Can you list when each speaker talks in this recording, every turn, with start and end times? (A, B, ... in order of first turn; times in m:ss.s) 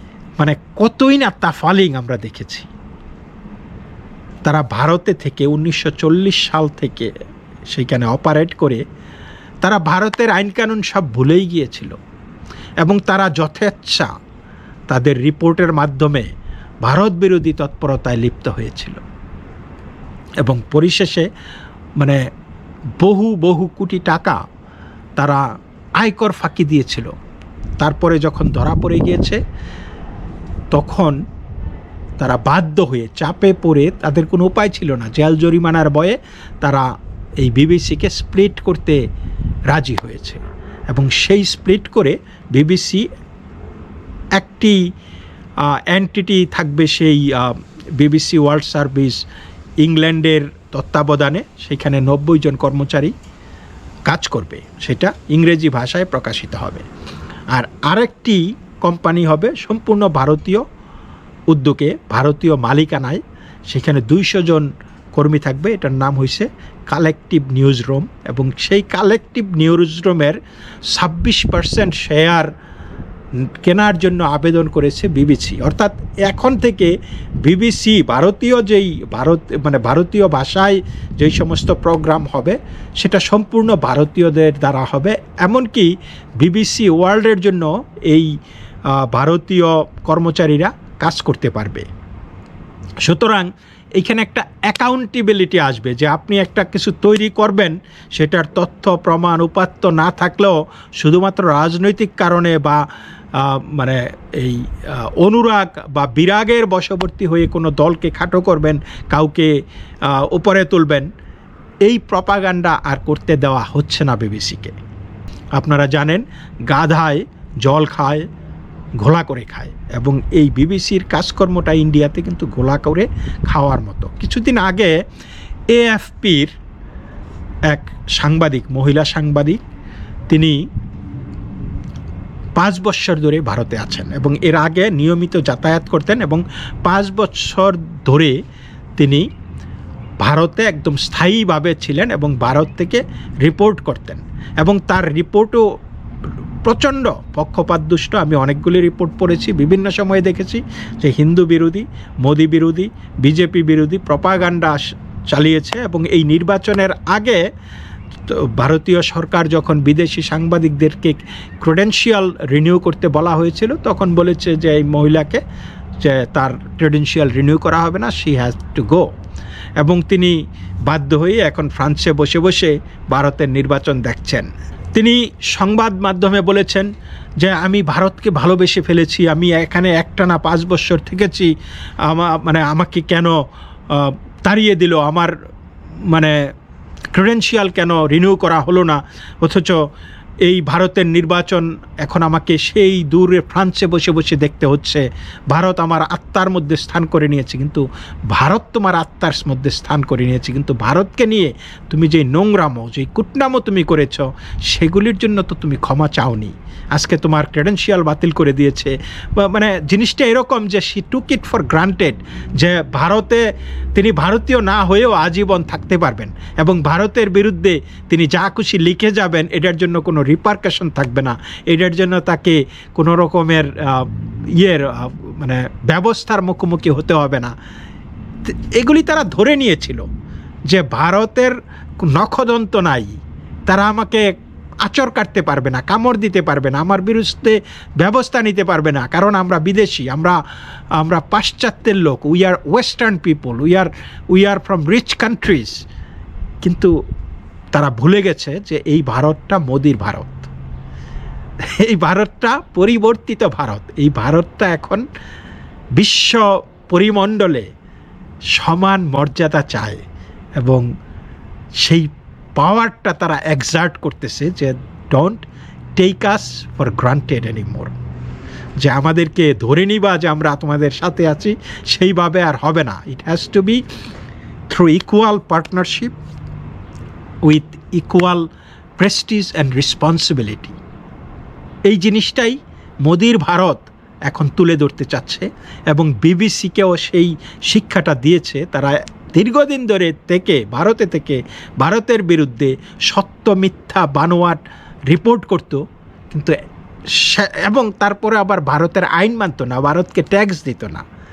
0:00.4-0:02.7 A
0:04.4-0:07.1 A
0:07.7-0:08.8 A
0:09.6-0:12.0 A
0:12.8-0:14.1 A
0:14.9-0:16.3 A
0:16.8-0:19.0 A
0:20.4-0:21.3 A
0:23.0-0:24.4 A
0:26.0-0:27.1 A
0:27.8-0:29.4 A
0:30.7-0:31.2 A
0:32.2-0:36.8 A
0:37.4-0:39.0 A
0:39.7-0:43.0 A
0:44.4-0:44.8 A
0:45.6-0:49.2 A
0:49.8-0:53.1 A
0:54.1-0:56.8 A
0:57.5-1:00.6 A
1:01.5-1:10.4 A
1:10.9-1:12.5 A
1:13.6-1:16.9 A
1:17.4-1:28.3 A
1:28.9-1:31.9 A
1:33.0-1:42.8 A
1:43.3-1:49.5 A
1:50.0-1:51.1 A
1:51.8-1:54.7 A
1:55.6-1:58.2 A
1:59.0-2:04.9 A
2:05.7-2:06.5 A
2:07.7-2:09.6 A
2:10.3-2:10.6 A
2:12.6-2:18.4 A
2:19.0-2:19.2 A
2:20.2-2:25.6 A
2:26.6-2:37.4 A
2:38.3-2:45.4 A
2:46.0-2:49.1 A
2:49.8-2:56.9 A
2:57.4-3:01.5 A
3:02.0-3:03.4 A
3:03.9-3:05.3 A
3:06.1-3:06.4 A
3:07.1-3:09.8 A
3:10.4-3:33.4 A
3:33.9-3:47.5 A
3:48.4-3:50.0 A
3:50.7-4:00.4 A
4:01.0-4:05.8 A
4:06.6-4:06.9 A
4:07.7-4:10.5 A
4:11.6-4:15.0 A
4:16.0-4:17.7 A
4:18.5-4:20.0 A
4:20.6-4:20.8 A
4:21.8-4:25.4 A
4:26.0-4:27.9 A
4:28.8-4:33.8 A
4:34.7-4:36.1 A
4:37.4-4:38.4 A
4:39.0-4:40.8 A
4:41.9-4:56.5 A
4:57.1-5:01.0 A